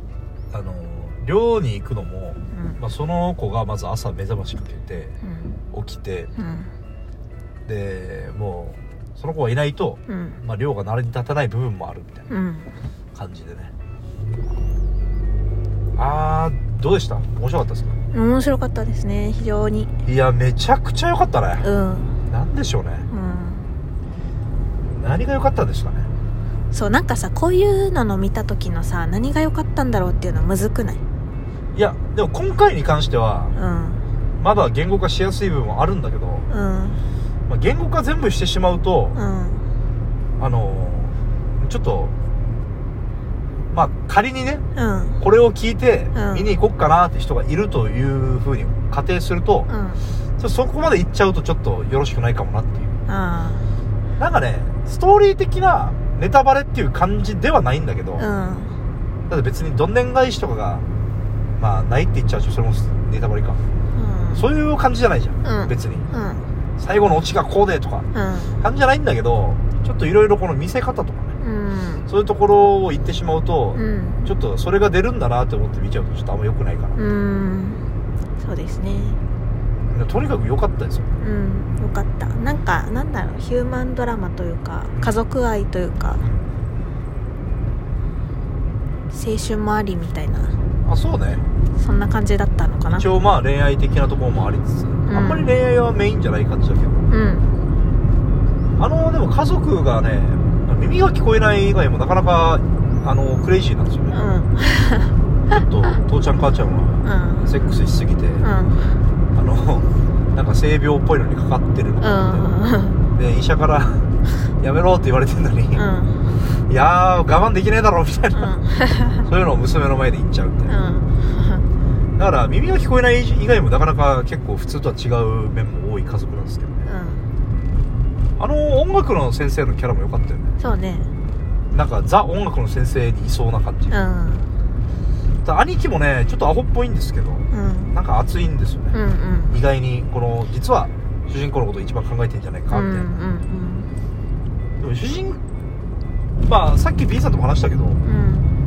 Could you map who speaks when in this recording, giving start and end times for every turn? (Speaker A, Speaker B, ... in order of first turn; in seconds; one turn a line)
Speaker A: 0.5-5.2
Speaker B: 2.5-2.8
Speaker B: 5.2-5.6
Speaker A: 5.7-6.3
Speaker B: 6.4-6.7
Speaker A: 7.7-12.3
Speaker B: 10.1-10.4
Speaker B: 12.3-12.7
Speaker A: 13.1-13.7
Speaker A: 16.0-18.0
Speaker B: 18.1-19.9
Speaker A: 20.0-21.7
Speaker B: 21.6-22.2
Speaker A: 22.3-23.1
Speaker B: 23.1-23.7
Speaker A: 24.9-26.1
Speaker B: 26.7-31.0
Speaker A: 31.7-33.5
Speaker B: 33.5-34.0
Speaker A: 34.4-36.5
Speaker B: 36.5-37.0
Speaker A: 37.5-39.2
Speaker B: 39.1-39.7
Speaker A: 40.4-42.2
Speaker A: 43.7-44.6
Speaker B: 44.8-45.2
Speaker A: 45.2-49.7
Speaker B: 46.1-46.5
Speaker B: 49.7-50.0
Speaker A: 50.4-52.9
Speaker B: 53.1-53.7
Speaker A: 54.2-58.3
Speaker B: 58.2-58.8
Speaker A: 59.3-60.9
Speaker A: 61.6-63.6
Speaker B: 63.9-64.5
Speaker A: 64.3-66.1
Speaker B: 65.4-66.5
Speaker A: 66.8-68.1
Speaker B: 68.1-68.6
Speaker A: 68.6-71.3
Speaker B: 71.4-72.1
Speaker A: 72.1-77.0
Speaker B: 73.8-74.3
Speaker B: 77.0-77.8
Speaker B: 78.4-79.2
Speaker A: 79.9-81.1
Speaker B: 81.2-86.2
Speaker A: 86.2-86.5
Speaker B: 89.1-90.6
Speaker A: 90.8-91.5
Speaker B: 91.8-93.1
Speaker A: 92.9-97.0
Speaker B: 95.1-95.6
Speaker B: 97.1-97.5
Speaker A: 98.8-104.2
Speaker B: 104.1-105.2
Speaker A: 105.5-108.5
Speaker B: 107.0-107.5
Speaker B: 108.4-109.0
Speaker A: 109.3-112.5
Speaker B: 112.0-113.0
Speaker A: 113.1-115.8
Speaker B: 115.7-116.3
Speaker A: 116.5-118.5
Speaker B: 118.3-119.3
Speaker A: 119.2-120.7
Speaker B: 120.7-121.7
Speaker A: 122.2-126.9
Speaker B: 126.8-127.3
Speaker A: 128.4-130.6
Speaker B: 130.6-131.1
Speaker A: 131.7-134.0
Speaker B: 133.9-134.5
Speaker A: 135.4-139.0
Speaker B: 137.5-138.0
Speaker B: 138.9-139.6
Speaker A: 139.5-143.1
Speaker B: 142.7-143.9
Speaker A: 144.8-145.4
Speaker A: 146.4-148.0
Speaker B: 148.0-148.5